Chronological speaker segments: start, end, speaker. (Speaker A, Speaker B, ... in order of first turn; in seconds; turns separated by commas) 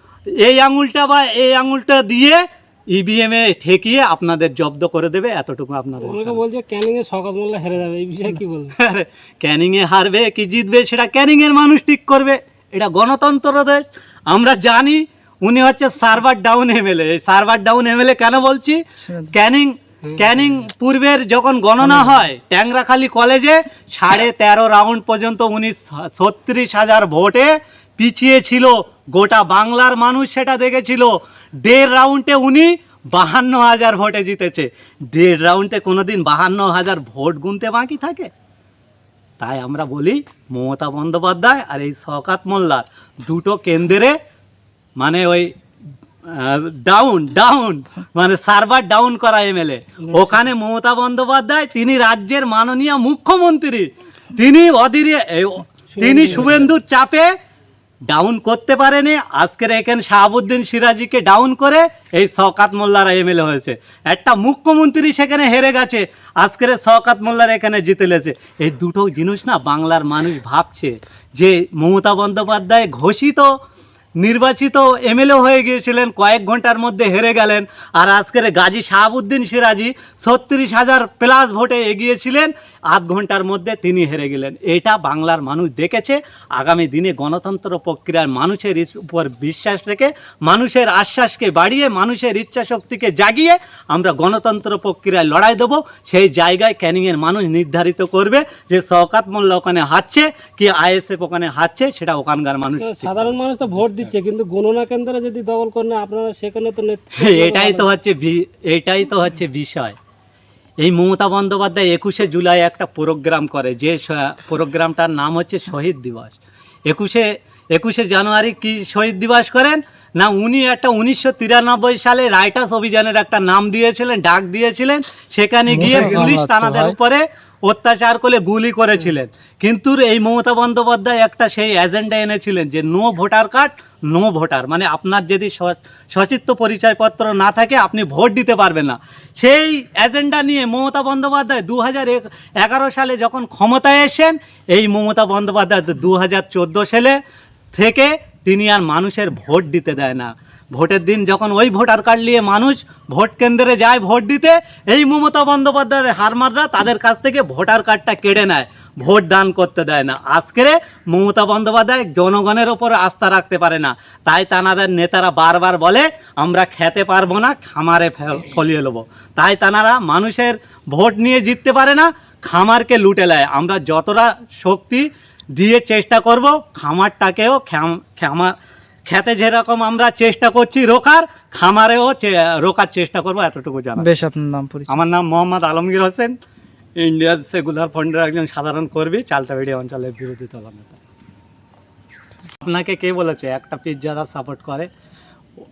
Speaker A: 0.4-6.4, Speaker B: 6.0-8.7, Speaker A: 8.8-38.3, Speaker C: 19.0-19.3, Speaker B: 20.0-20.3, Speaker A: 39.4-44.2, Speaker A: 45.0-45.5, Speaker A: 46.2-57.3, Speaker B: 50.0-50.4, Speaker B: 55.9-56.7, Speaker A: 58.1-73.6, Speaker A: 74.2-104.1, Speaker B: 102.8-107.9, Speaker A: 107.2-110.0, Speaker A: 110.8-147.2, Speaker C: 125.7-126.9, Speaker B: 125.8-126.2, Speaker A: 147.7-178.5, Speaker A: 179.1-184.1, Speaker C: 184.0-184.9, Speaker A: 184.9-186.3, Speaker A: 187.0-191.0, Speaker A: 192.6-194.9